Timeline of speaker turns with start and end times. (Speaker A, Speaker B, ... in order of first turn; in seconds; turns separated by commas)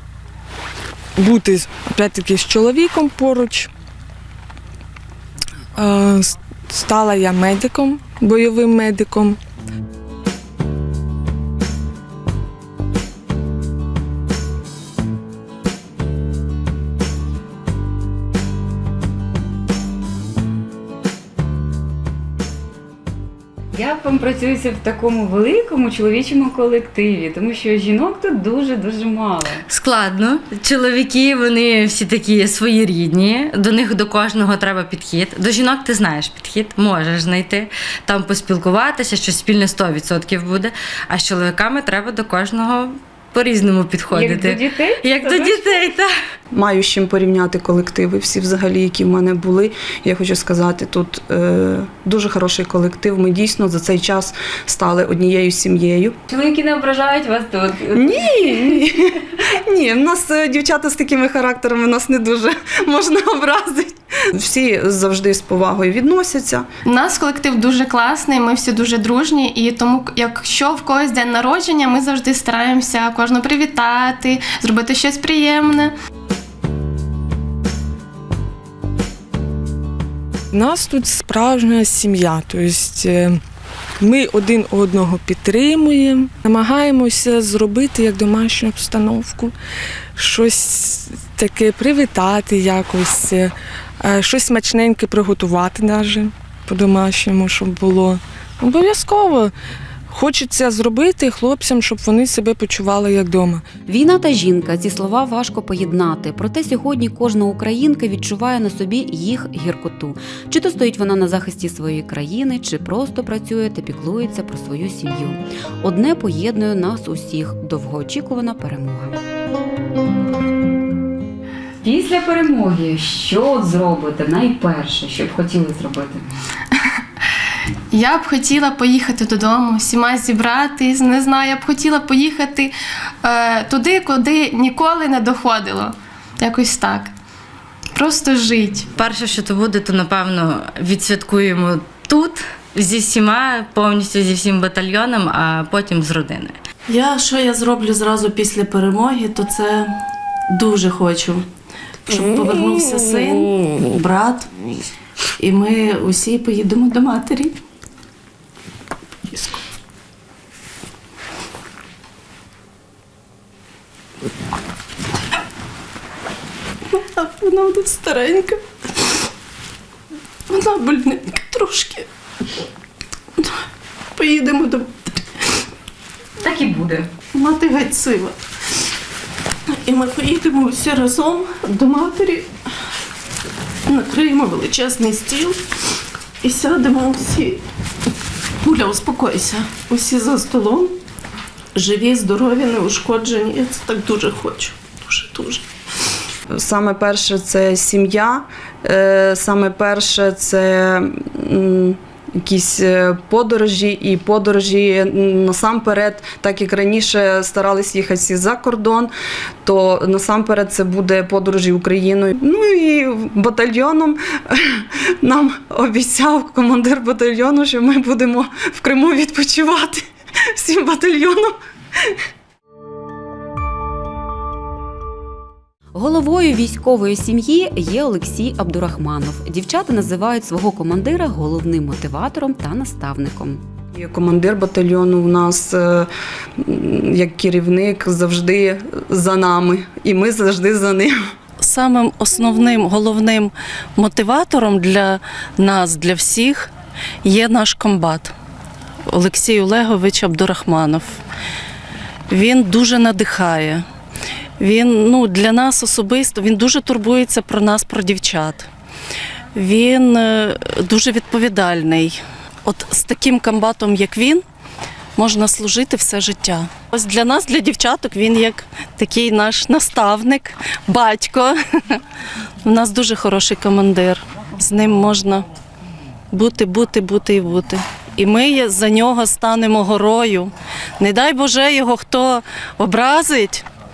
Speaker A: 1.2-3.7, Speaker A: 5.8-9.4, Speaker B: 23.7-29.6, Speaker C: 29.7-46.1, Speaker B: 44.1-45.9, Speaker D: 46.5-56.2, Speaker B: 56.3-58.9, Speaker D: 57.9-66.7, Speaker E: 66.8-75.9, Speaker A: 80.5-83.4, Speaker A: 84.0-89.5, Speaker A: 90.2-99.5, Speaker A: 100.1-103.6, Speaker B: 103.9-119.2, Speaker B: 121.8-126.3, Speaker E: 127.9-132.7, Speaker E: 133.2-137.1, Speaker E: 138.0-138.9, Speaker C: 138.9-146.6, Speaker F: 146.9-149.9, Speaker F: 150.5-151.5, Speaker F: 152.1-154.5, Speaker F: 155.4-157.6, Speaker F: 166.9-168.6, Speaker F: 170.5-172.1, Speaker F: 174.2-175.2, Speaker B: 176.4-177.1, Speaker F: 177.3-178.3, Speaker F: 179.8-182.5, Speaker F: 183.9-185.6, Speaker F: 186.4-187.6, Speaker F: 188.6-191.0, Speaker F: 191.8-195.7, Speaker D: 196.5-209.1, Speaker D: 209.6-220.1, Speaker D: 220.6-221.6, Speaker B: 225.9-233.6, Speaker D: 233.9-236.1, Speaker D: 236.6-241.2, Speaker F: 241.6-246.7, Speaker F: 247.2-248.3, Speaker F: 249.1-251.2, Speaker F: 252.3-253.8, Speaker F: 254.6-258.7, Speaker F: 259.6-264.4, Speaker F: 265.2-272.0, Speaker F: 272.6-275.5, Speaker F: 276.3-283.6